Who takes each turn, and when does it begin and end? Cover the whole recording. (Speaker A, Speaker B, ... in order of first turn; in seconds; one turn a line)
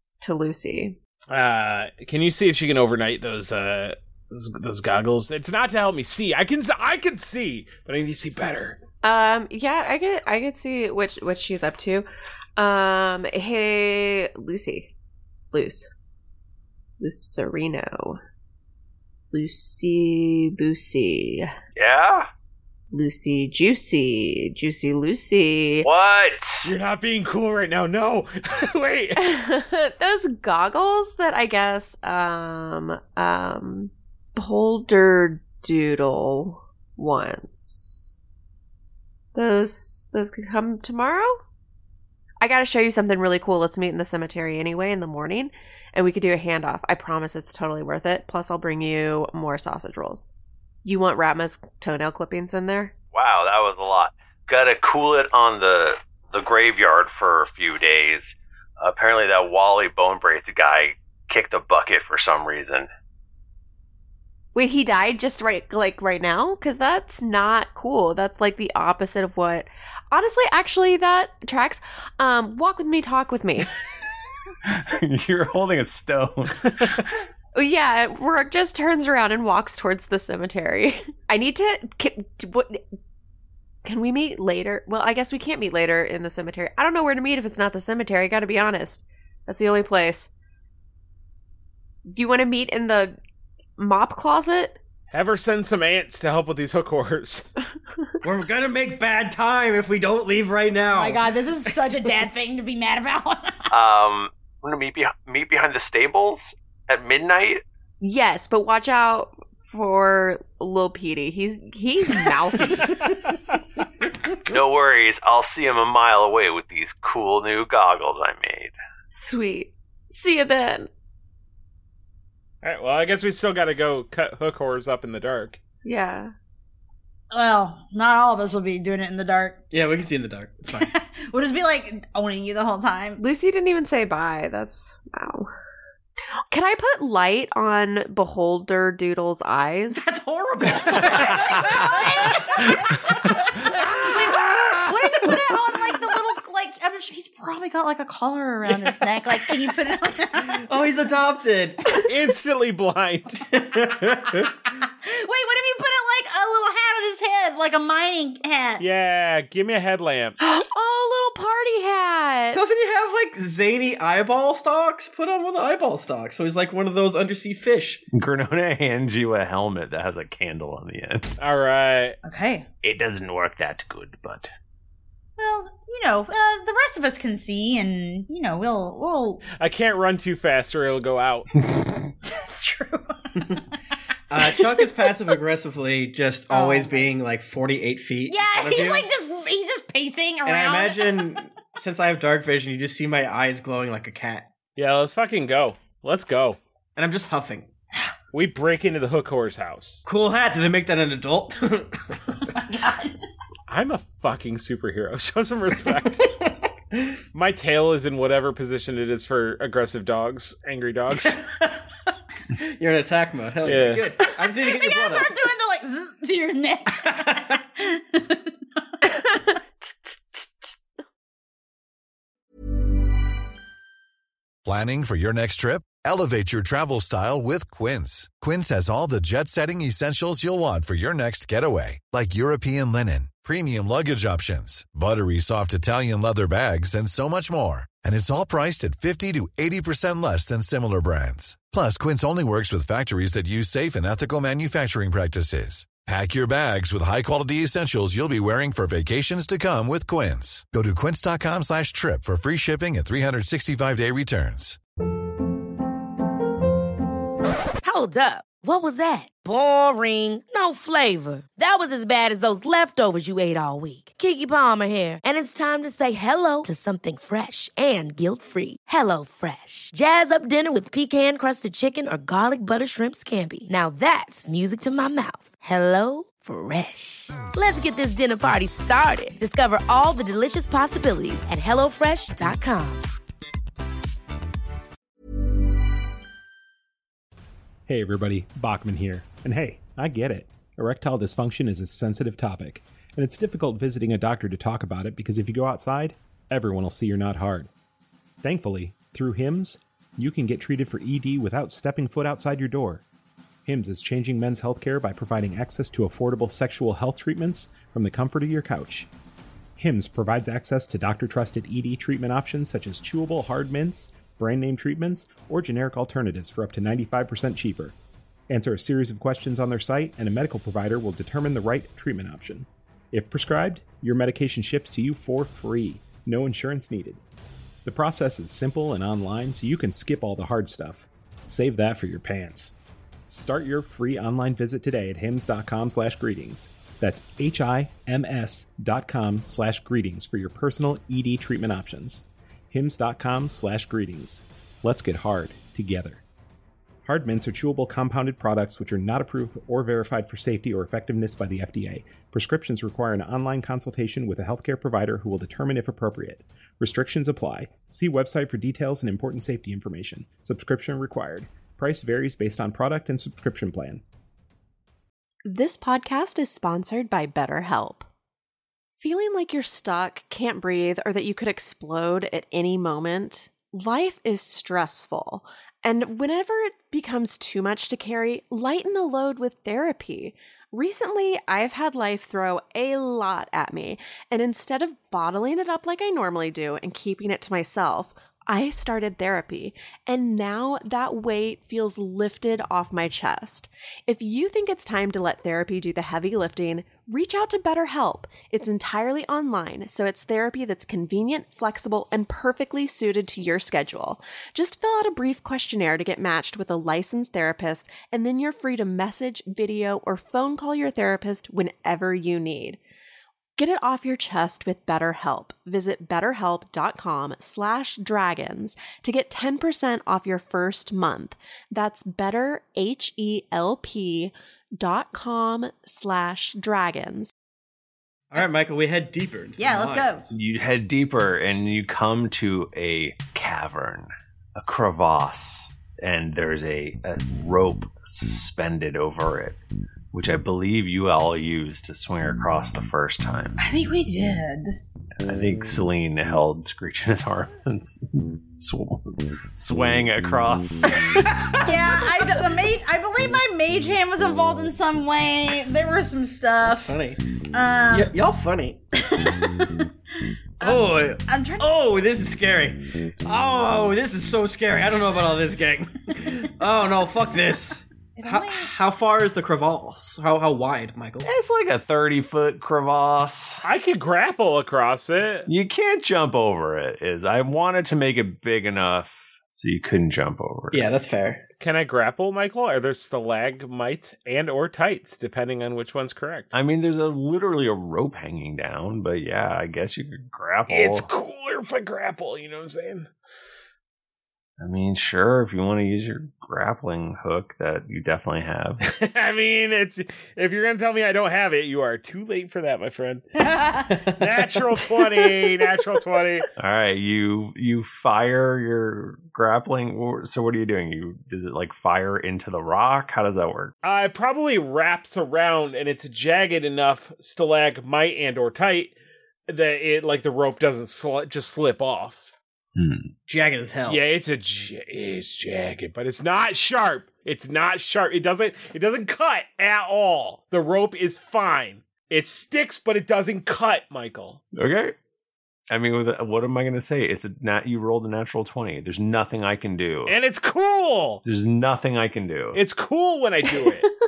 Speaker A: 0.2-1.0
Speaker B: 1.3-8.8
Speaker A: 9.0-14.9
Speaker A: 15.5-15.9
Speaker A: 17.0-18.2
Speaker A: 19.3-21.5
Speaker C: 21.8-22.3
Speaker A: 22.9-25.9
Speaker C: 25.8-26.7
Speaker B: 26.6-29.2
Speaker A: 29.2-38.2
Speaker A: 39.4-41.4
Speaker A: 42.4-50.3
Speaker A: 50.8-52.9
Speaker C: 53.1-62.9
Speaker A: 64.5-73.7
Speaker C: 74.7-77.0
Speaker A: 77.5-82.8
Speaker A: 83.8-90.3
Speaker A: 92.1-93.2
Speaker A: 93.8-94.8
Speaker B: 95.1-97.5
Speaker D: 98.2-101.3
Speaker E: 100.9-103.7
Speaker C: 103.7-107.6
Speaker A: 108.0-113.0
Speaker C: 114.5-118.7
Speaker A: 119.1-120.9
Speaker B: 122.6-125.6
Speaker A: 125.8-126.3
Speaker E: 127.3-129.6
Speaker D: 129.7-130.9
Speaker E: 130.8-133.2
Speaker A: 133.2-135.5
Speaker A: 136.5-140.1
Speaker E: 140.0-150.6
Speaker D: 140.6-142.0
Speaker D: 150.4-152.0
Speaker B: 152.0-153.4
Speaker D: 153.5-154.5
Speaker E: 155.0-158.8
Speaker B: 158.8-160.4
Speaker A: 160.4-162.6
Speaker D: 162.5-168.0
Speaker C: 168.1-171.3
Speaker B: 171.4-172.2
Speaker E: 172.2-172.7
Speaker C: 172.8-174.5
Speaker E: 175.4-179.4
Speaker B: 179.6-181.5
Speaker E: 182.2-183.3
Speaker D: 184.3-189.1
Speaker E: 186.5-187.1
Speaker E: 188.3-191.3
Speaker D: 190.4-194.5
Speaker B: 194.8-196.6
Speaker D: 197.0-197.7
Speaker B: 198.3-200.1
Speaker D: 200.1-202.4
Speaker E: 202.6-203.1
Speaker B: 203.7-206.3
Speaker B: 207.3-211.4
Speaker D: 212.5-215.3
Speaker B: 213.7-214.1
Speaker E: 214.6-218.5
Speaker D: 217.1-217.4
Speaker A: 219.1-220.8
Speaker F: 224.7-254.8
Speaker G: 257.8-283.1
Speaker H: 287.9-297.7
Speaker H: 298.4-303.0
Speaker H: 303.7-309.1
Speaker H: 309.8-318.0
Speaker H: 318.5-327.2
Speaker H: 327.9-332.7
Speaker H: 333.2-346.2
Speaker H: 347.1-364.0
Speaker A: 365.4-368.1
Speaker A: 369.0-412.8
Speaker A: 413.6-427.3
Speaker D: 428.3-430.3
Speaker E: 429.6-430.3
Speaker C: 430.3-439.6
Speaker C: 440.1-443.6
Speaker E: 443.6-444.8
Speaker C: 445.3-451.3
Speaker E: 451.6-456.9
Speaker D: 456.7-457.2
Speaker E: 457.5-458.1
Speaker D: 457.9-459.4
Speaker E: 460.6-461.7
Speaker D: 460.6-471.3
Speaker E: 468.2-468.7
Speaker C: 471.2-473.6
Speaker B: 473.6-475.5
Speaker C: 475.5-480.9
Speaker D: 480.7-481.4
Speaker B: 481.6-486.5
Speaker C: 486.5-491.1
Speaker B: 490.7-493.1
Speaker C: 494.6-498.8
Speaker B: 498.9-503.3
Speaker E: 503.5-503.8
Speaker B: 504.1-506.5
Speaker C: 506.6-513.7
Speaker B: 513.8-519.0
Speaker B: 519.5-522.3
Speaker C: 522.8-523.1
Speaker D: 523.3-524.0
Speaker B: 523.9-534.4
Speaker C: 534.5-535.0
Speaker C: 535.7-540.1
Speaker B: 540.1-541.2
Speaker C: 541.2-542.6
Speaker B: 542.5-543.9